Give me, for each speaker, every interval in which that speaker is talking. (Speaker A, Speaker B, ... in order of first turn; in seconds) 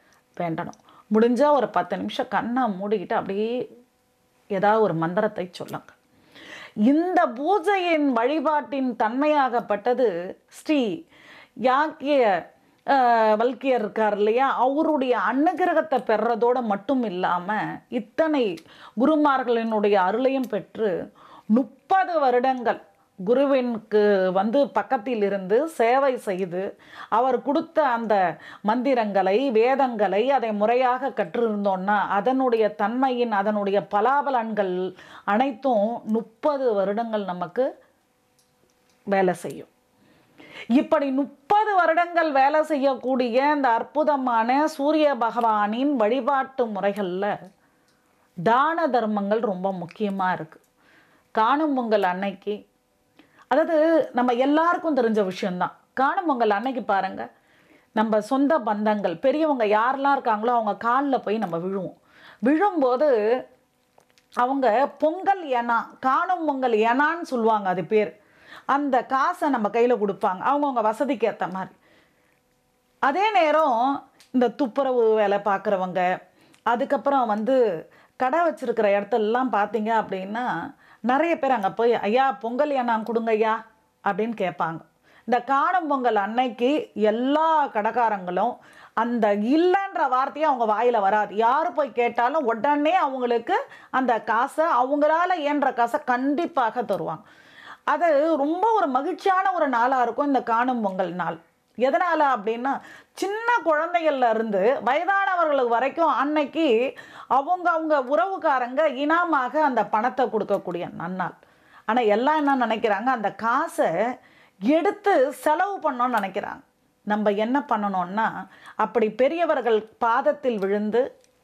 Speaker A: 0.4-3.5, 4.6-6.0, 6.9-10.8, 11.7-12.2, 12.9-18.5, 19.0-20.9, 21.5-26.6, 27.1-34.8, 35.3-37.6, 39.1-39.7, 40.8-47.3, 48.5-50.6, 51.4-52.6, 53.5-57.2, 58.0-62.0, 62.5-63.1, 64.4-68.1, 68.7-71.7, 73.1-73.8, 74.3-76.0, 76.7-77.6, 78.2-80.4, 81.1-83.6, 84.1-97.2, 97.9-106.7, 107.3-111.3, 111.9-113.9, 114.7-118.3, 118.8-121.0